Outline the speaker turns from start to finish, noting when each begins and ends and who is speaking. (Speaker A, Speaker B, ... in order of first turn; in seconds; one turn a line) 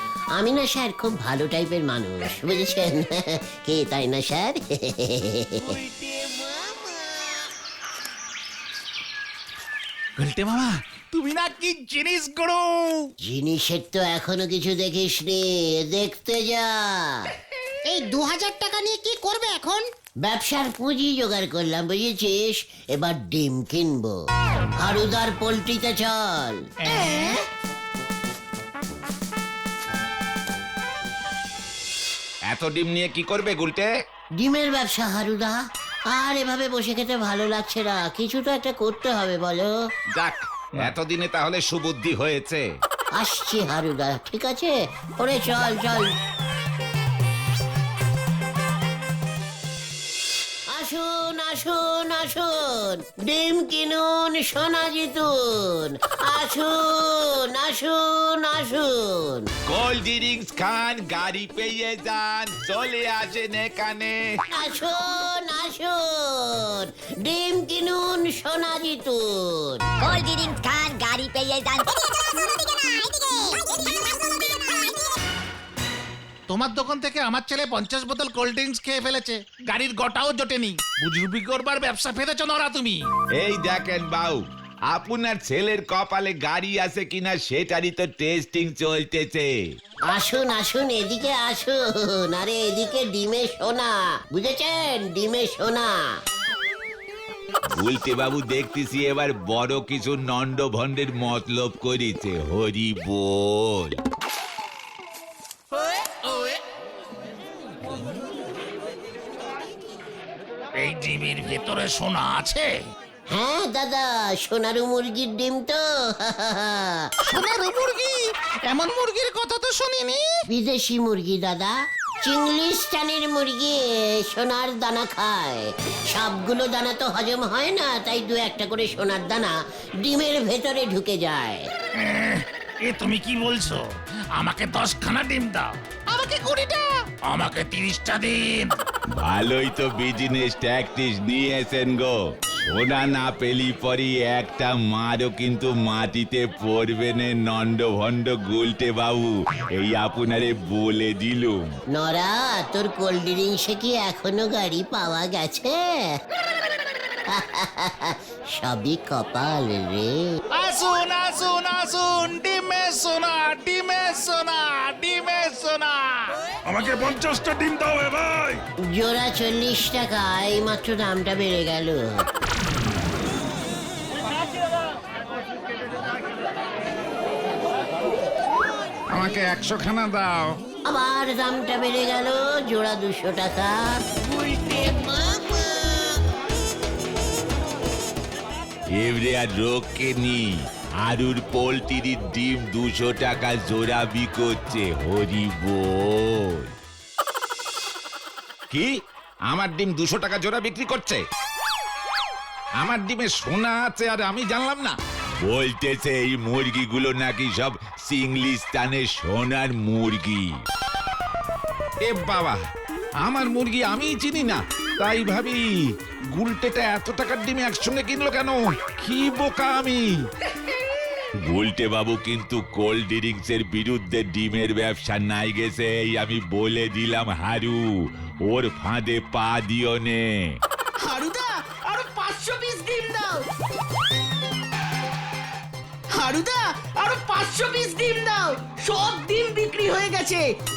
Speaker A: 0.3-5.7
Speaker B: 5.6-7.4
Speaker C: 10.2-13.1
Speaker A: 13.2-17.2
Speaker D: 17.9-19.8
Speaker A: 20.2-24.1
Speaker A: 24.8-26.7
Speaker C: 26.8-27.4
Speaker E: 32.5-33.9
Speaker A: 34.4-35.5
Speaker A: 36.1-39.7
Speaker E: 40.1-42.7
Speaker A: 43.2-46.1
Speaker A: 50.7-59.5
Speaker E: 59.7-64.3
Speaker A: 64.5-69.8
Speaker F: 70.0-75.0
Speaker C: 76.5-83.0
Speaker E: 83.3-89.5
Speaker A: 90.1-96.0
Speaker E: 97.7-104.0
Speaker C: 110.8-112.7
Speaker A: 113.3-117.0
Speaker C: 117.2-120.2
Speaker A: 120.5-131.7
Speaker C: 131.9-133.8
Speaker C: 134.3-138.8
Speaker E: 139.1-151.8
Speaker A: 151.9-156.1
Speaker A: 157.3-160.2
Speaker C: 160.5-166.4
Speaker G: 166.7-168.6
Speaker A: 168.9-172.2
Speaker E: 179.3-180.1
Speaker A: 180.8-183.9
Speaker B: 184.2-186.2
Speaker E: 188.9-196.7
Speaker E: 199.5-201.2
Speaker E: 202.8-210.5
Speaker E: 212.0-212.6
Speaker E: 213.2-215.6
Speaker E: 216.3-220.1
Speaker E: 221.4-230.6
Speaker B: 231.0-233.4
Speaker B: 236.1-240.5